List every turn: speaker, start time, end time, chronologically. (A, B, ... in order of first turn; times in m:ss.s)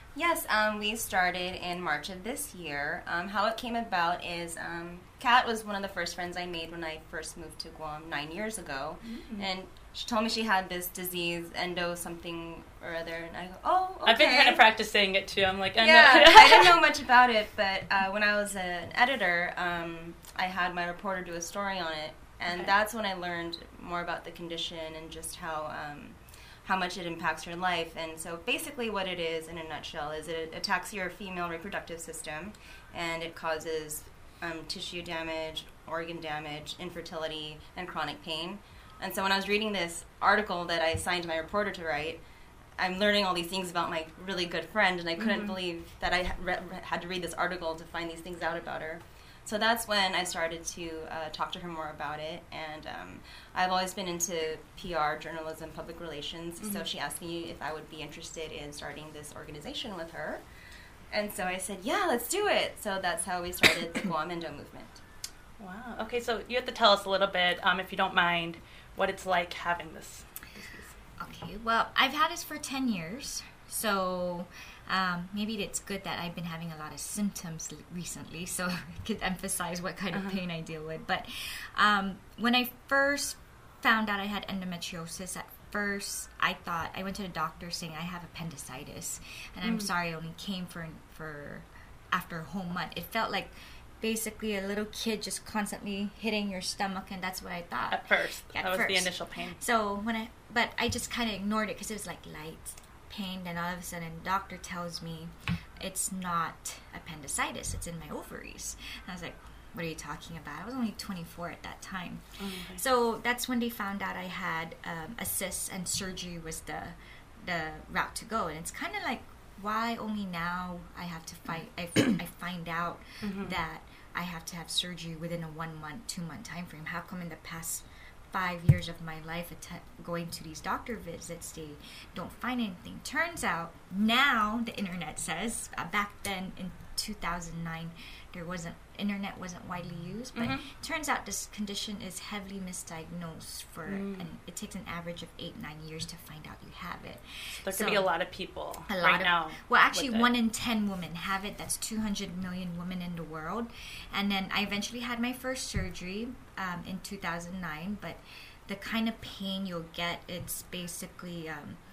0:00.2-0:14.6 A
0:09.1-0:09.5 B
0:14.0-0:16.8 B
0:15.8-0:42.2 A
0:42.8-1:00.4 A
0:45.2-0:45.6 B
0:56.6-0:56.9 B
1:01.1-1:05.0 A
1:05.6-1:11.0 B
1:11.2-2:28.1 C
1:20.1-1:20.4 B
1:29.6-1:29.9 B
1:37.9-1:39.6 B
1:52.4-1:52.8 B
2:03.2-2:03.6 B
2:20.3-2:20.7 B
2:23.9-2:24.3 B
2:27.6-2:30.3 B
2:28.9-2:41.8 C